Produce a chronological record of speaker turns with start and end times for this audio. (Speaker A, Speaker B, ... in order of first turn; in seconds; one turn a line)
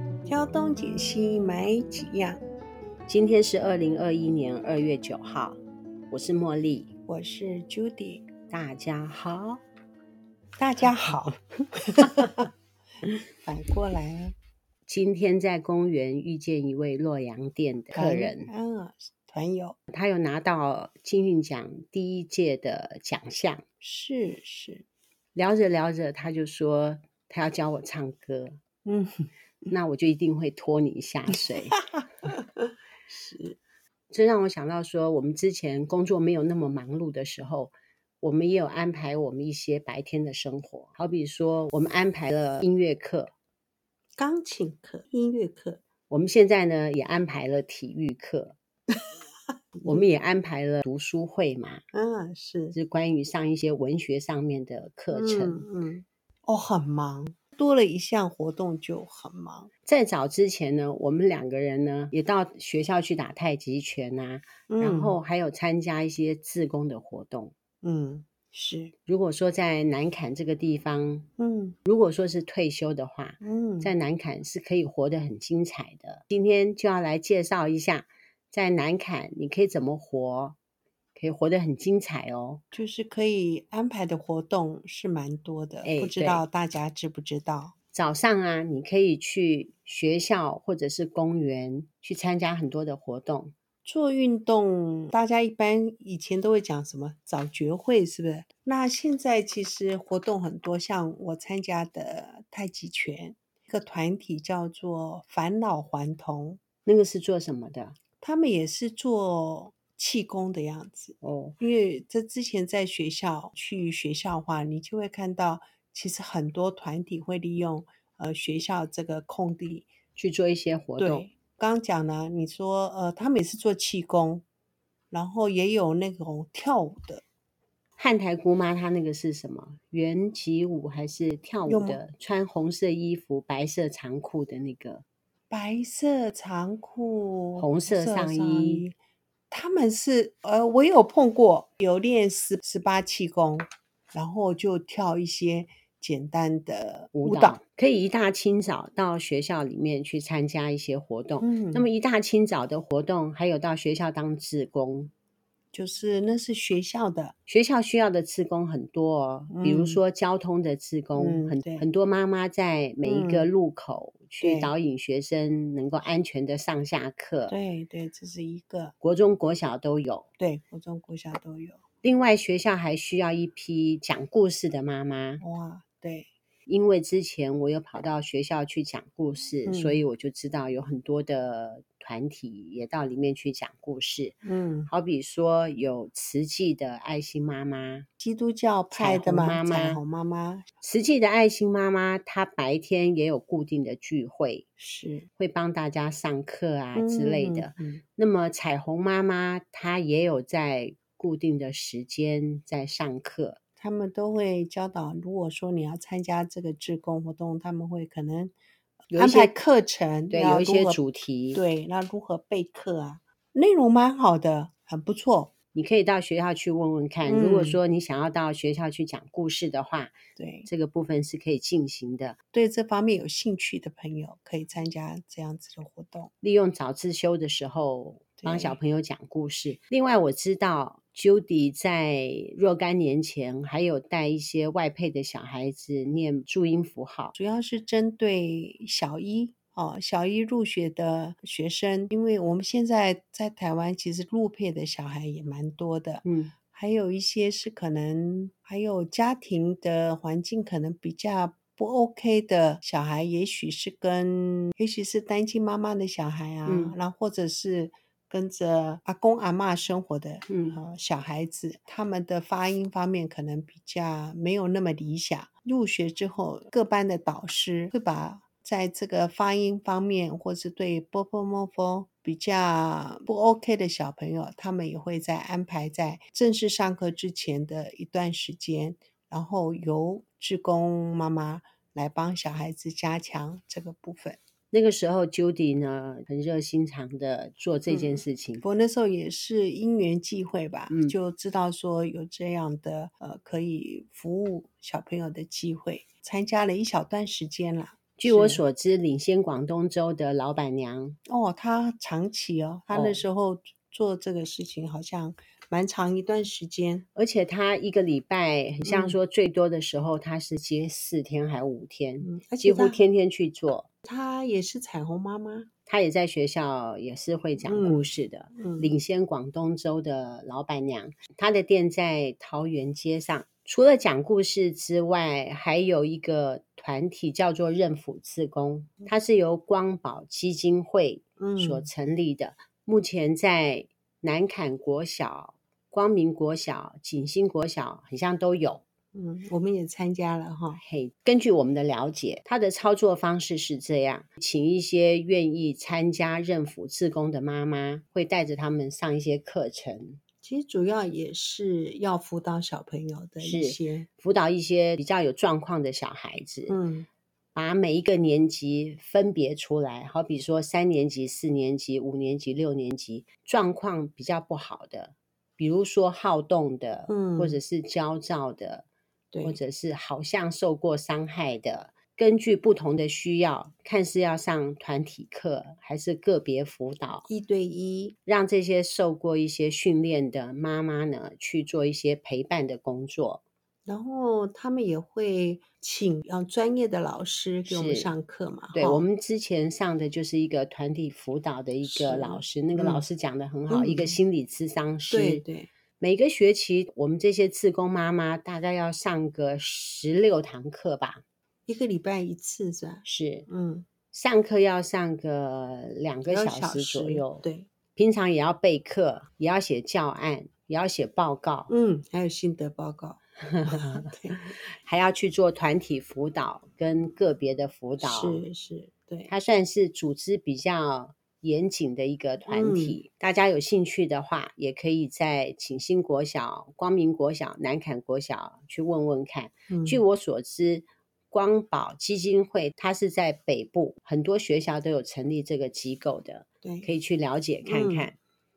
Speaker A: 0.2-2.4
Speaker B: 3.1-6.9
Speaker A: 7.1-8.2
Speaker B: 8.5-9.6
Speaker A: 10.6-12.5
Speaker B: 12.0-12.3
Speaker A: 13.4-14.3
Speaker B: 14.9-18.5
Speaker A: 17.9-19.8
Speaker B: 19.9-23.6
Speaker A: 23.8-24.8
Speaker B: 25.3-28.6
Speaker A: 28.8-29.3
Speaker B: 29.7-31.8
Speaker A: 31.9-33.6
Speaker B: 34.1-43.3
Speaker A: 44.2-45.8
Speaker B: 46.1-48.5
Speaker A: 48.9-49.2
Speaker A: 49.7-50.0
Speaker B: 49.8-51.8
Speaker A: 51.9-52.8
Speaker B: 52.7-55.6
Speaker A: 55.1-59.7
Speaker B: 59.9-67.5
Speaker A: 64.7-65.2
Speaker A: 67.8-68.9
Speaker B: 69.0-71.3
Speaker A: 71.4-71.8
Speaker B: 71.8-80.6
Speaker A: 73.4-73.9
Speaker B: 81.1-82.6
Speaker A: 82.7-87.7
Speaker B: 85.8-86.4
Speaker B: 87.9-93.5
Speaker A: 93.8-106.6
Speaker B: 106.8-108.0
Speaker A: 108.2-119.9
Speaker B: 111.2-111.6
Speaker B: 120.2-121.3
Speaker A: 121.0-124.4
Speaker A: 125.1-127.2
Speaker B: 128.0-135.0
Speaker A: 131.7-132.0
Speaker A: 135.5-138.9
Speaker B: 137.6-138.8
Speaker A: 139.5-147.6
Speaker B: 147.1-155.1
Speaker A: 151.4-151.9
Speaker A: 155.7-157.3
Speaker B: 157.5-167.6
Speaker A: 159.5-160.0
Speaker A: 161.2-161.8
Speaker A: 163.0-163.5
Speaker A: 164.4-164.7
Speaker A: 167.5-168.9
Speaker B: 169.0-170.3
Speaker A: 170.4-171.8
Speaker B: 172.0-175.4
Speaker A: 175.4-176.3
Speaker B: 176.7-188.1
Speaker A: 179.7-180.0
Speaker A: 184.4-184.9
Speaker A: 188.2-190.7
Speaker B: 188.9-190.0
Speaker B: 190.8-194.7
Speaker A: 194.8-195.3
Speaker B: 195.4-203.6
Speaker A: 196.9-198.0
Speaker A: 203.8-208.5
Speaker B: 209.1-209.5
Speaker A: 209.1-211.0
Speaker B: 210.3-211.6
Speaker A: 211.5-215.5
Speaker B: 215.7-222.3
Speaker A: 217.2-217.8
Speaker A: 220.3-220.7
Speaker A: 222.5-226.3
Speaker B: 226.4-237.3
Speaker A: 228.4-228.8
Speaker A: 237.3-284.4
Speaker B: 246.2-246.5
Speaker B: 256.6-256.9
Speaker B: 260.5-260.8
Speaker B: 284.7-288.6
Speaker A: 287.9-298.6
Speaker B: 290.9-291.1
Speaker B: 298.2-301.2
Speaker A: 301.3-307.0
Speaker B: 302.9-303.2
Speaker B: 307.1-313.9
Speaker A: 308.8-309.2
Speaker A: 312.2-313.0
Speaker A: 314.0-315.7
Speaker B: 315.9-338.8
Speaker A: 317.6-318.9
Speaker A: 331.4-331.9
Speaker A: 339.1-340.8
Speaker B: 340.8-350.2
Speaker A: 350.4-354.1
Speaker B: 353.4-356.8
Speaker A: 356.7-357.1
Speaker B: 357.5-368.9
Speaker A: 367.1-367.6
Speaker A: 369.3-369.6
Speaker B: 369.4-377.3
Speaker A: 377.3-378.1
Speaker B: 378.2-383.4
Speaker A: 383.9-389.1
Speaker B: 387.7-388.1
Speaker B: 388.7-395.4
Speaker A: 391.8-393.0
Speaker A: 393.7-394.2
Speaker A: 395.1-395.7
Speaker B: 396.0-401.2
Speaker A: 401.7-403.9
Speaker B: 403.0-403.5
Speaker B: 404.1-411.7
Speaker A: 406.3-407.7
Speaker A: 411.7-414.5
Speaker B: 413.4-418.4
Speaker A: 418.0-419.3
Speaker B: 419.3-438.1
Speaker A: 422.5-423.0
Speaker A: 429.7-430.0
Speaker A: 436.6-436.9
Speaker A: 437.6-438.1